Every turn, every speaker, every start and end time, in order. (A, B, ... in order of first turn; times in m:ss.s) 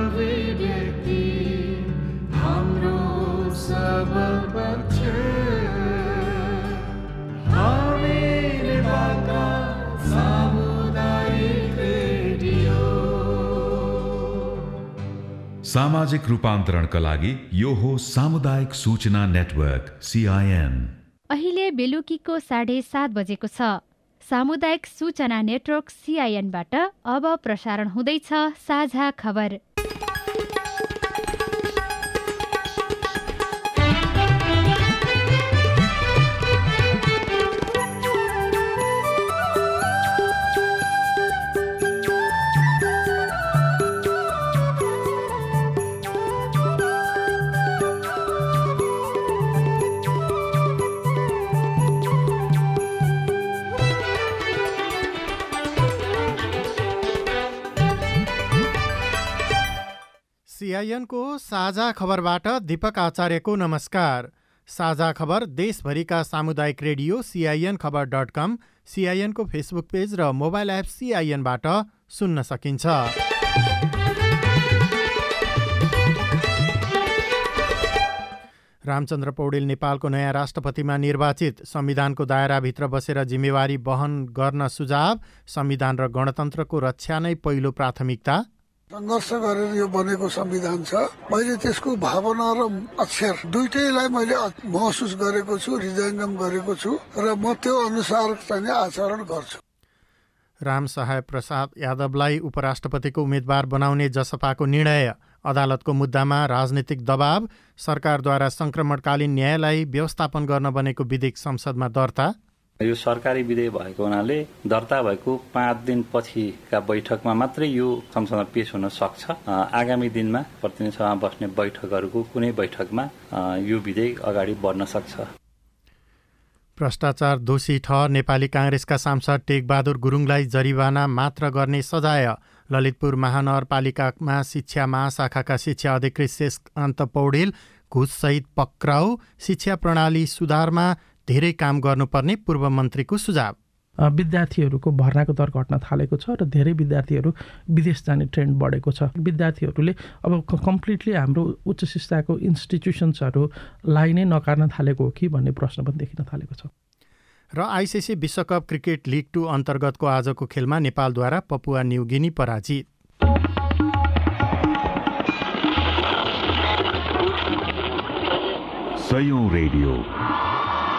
0:07.7-0:11.9 A
0:15.6-0:20.9 A
0:21.3-0:29.6 B
1:00.5-1:13.1 C
1:18.8-1:28.4 C
1:28.9-1:39.6 D
1:40.6-1:52.4 C
1:52.8-2:05.2 E
2:06.8-2:23.6 C
2:24.1-2:36.7 F
2:37.5-2:42.8 C
2:49.0-2:50.0 A